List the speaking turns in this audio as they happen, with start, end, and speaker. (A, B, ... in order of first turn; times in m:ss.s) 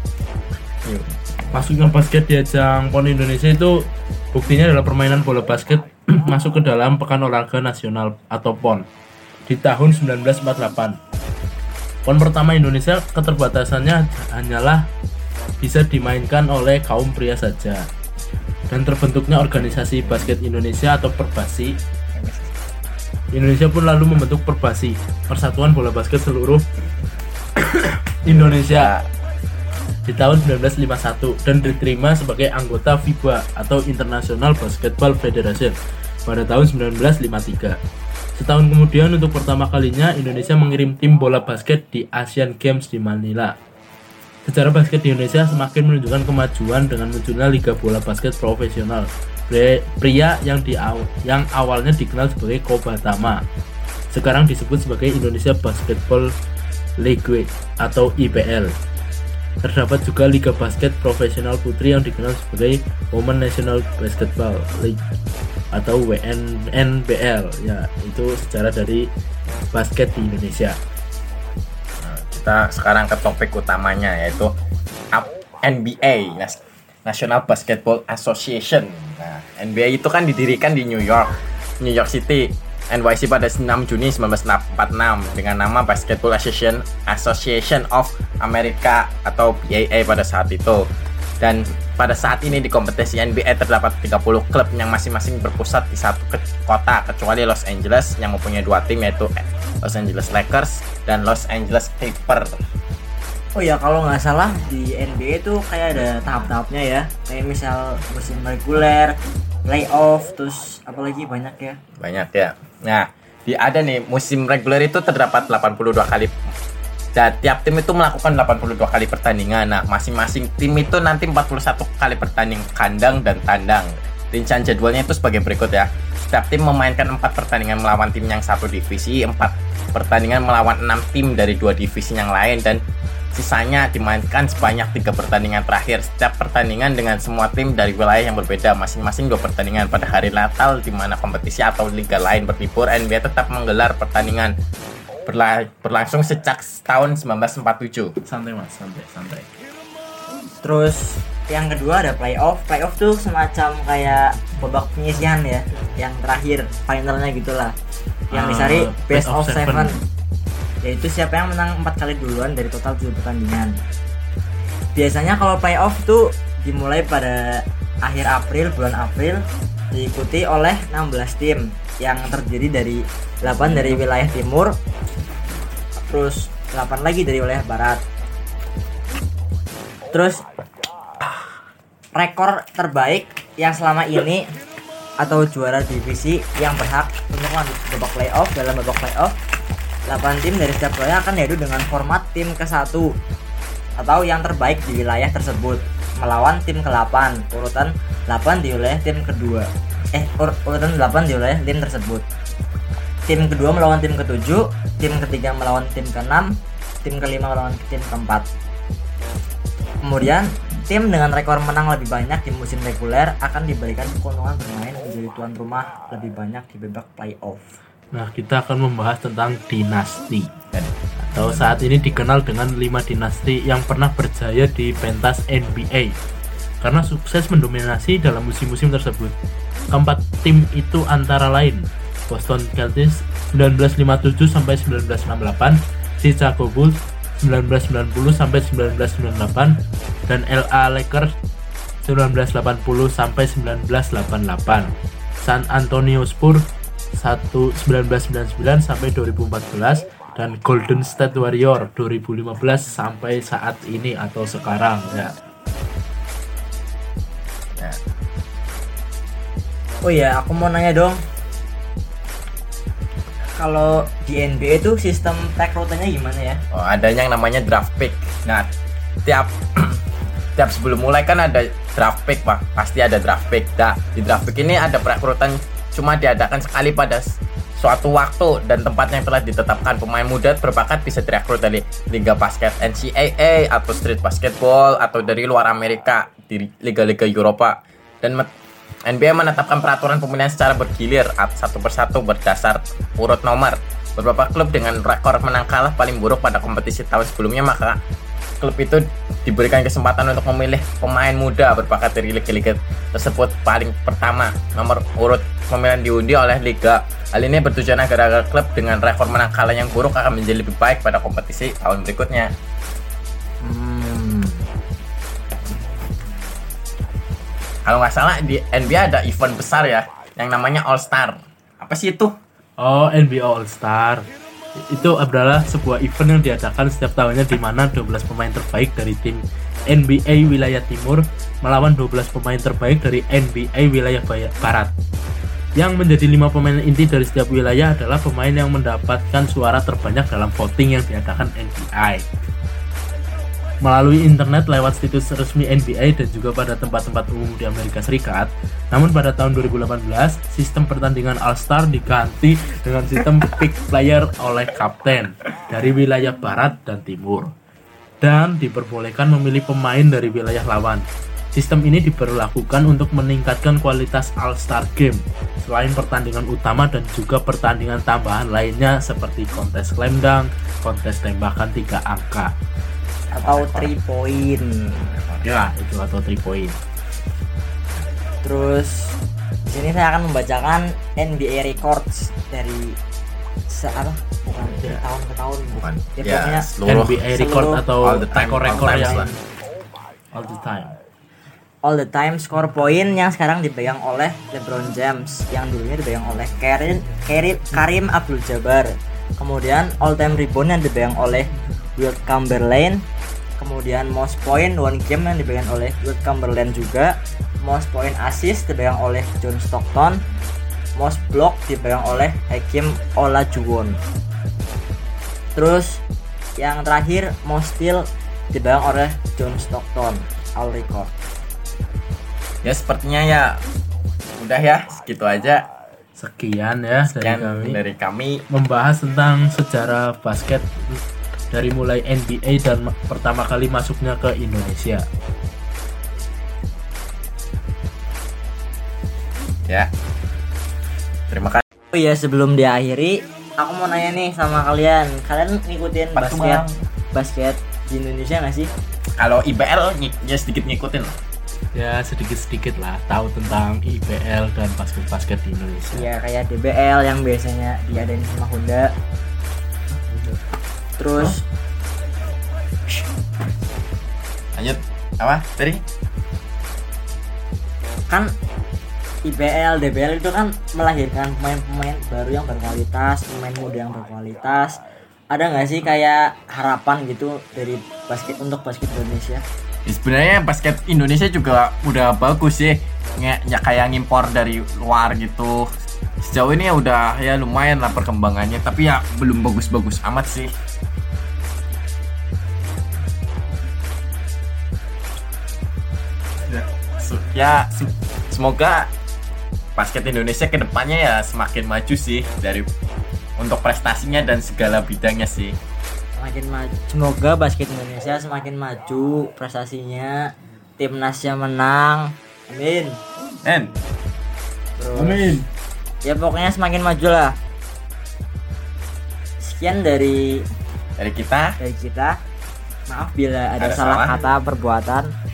0:00.8-0:01.7 A
0:01.5-0:08.8 B
0:09.4-0:11.0 B
0:12.0-0:14.9 B
0:15.6-0:17.9 B
0:18.7-0:21.8 B
0:22.1-0:22.5 A
0:23.3-0:26.7 B
0:28.2-0:28.9 B
0:28.3-0:29.1 A
0:30.1-0:37.8 B
0:38.3-0:43.6 B
0:44.4-0:53.4 B
0:54.1-0:56.3 B
0:57.0-0:58.7 B
0:59.6-1:05.0 B
1:05.7-1:09.1 B
1:09.7-1:10.8 B
1:12.0-1:14.5 A
1:15.1-1:30.8 A
1:31.4-1:42.6 A
1:43.5-1:49.1 C
1:49.6-1:51.8 C
1:52.0-1:56.3 A
1:57.1-2:12.8 A
2:13.3-2:24.5 A
2:25.2-2:28.1 A
2:28.2-2:29.5 B
2:30.6-2:37.7 C
2:38.3-2:40.0 C
2:38.3-2:40.0 B
2:40.8-2:43.8 C
2:44.9-2:54.7 C
2:53.6-2:53.9 B
2:56.0-2:58.0 C
3:00.1-3:00.4 C
3:02.1-3:04.4 C
3:05.2-3:09.3 C
3:10.1-3:13.1 C
3:14.0-3:22.2 C
3:23.3-3:26.5 C
3:27.0-3:28.4 C
3:30.0-3:37.7 C
3:38.1-3:40.5 B
3:40.7-3:42.1 A
3:41.2-3:46.1 B
3:46.8-3:49.3 B
3:49.9-4:01.3 B
4:02.0-4:15.3 B
4:20.0-4:21.2 C
4:23.6-4:26.6 C
4:26.7-4:28.7 A
4:29.2-4:30.0 A
4:30.6-4:48.5 A
4:49.0-4:58.0 A
4:58.6-5:12.5 A
5:13.6-5:14.6 C
5:17.8-5:22.3 A
5:22.8-5:34.9 B
5:35.8-5:42.3 B
5:43.8-5:57.5 B
5:58.2-6:12.5 B
6:13.3-6:15.4 C
6:13.3-6:13.9 A
6:15.4-6:16.8 B
6:18.4-6:23.0 C
6:23.7-6:26.7 C
6:25.8-6:27.2 A
6:26.9-6:29.4 B
6:27.3-6:27.8 C
6:28.0-6:29.3 A
6:30.3-6:30.9 B
6:31.8-6:43.0 C
6:43.6-6:50.2 C
6:51.0-6:54.0 C
6:55.5-6:56.0 C
6:56.6-7:01.1 C
7:02.6-7:03.6 A
7:04.4-7:05.6 A
7:06.2-7:07.8 B
7:07.0-7:08.4 A
7:08.5-7:15.0 B
7:21.3-7:21.6 A
7:21.9-7:28.7 C
7:26.1-7:26.8 A
7:29.2-7:31.2 A
7:31.7-7:36.1 B
7:35.9-7:38.9 C
7:41.0-7:41.4 C
7:44.6-7:45.8 A
7:49.2-7:59.4 C
7:59.8-8:05.7 A
8:06.2-8:10.5 A
8:16.4-8:18.9 A
8:19.8-8:22.7 A
8:23.4-8:25.6 A
8:26.2-8:33.0 C
8:33.4-8:33.7 A
8:34.8-8:35.4 C
8:34.9-8:35.5 B
8:36.0-8:37.4 C
8:39.4-8:40.4 C
8:41.0-8:41.6 A
8:41.6-8:42.2 C
8:42.9-8:45.1 C
8:43.6-8:44.2 A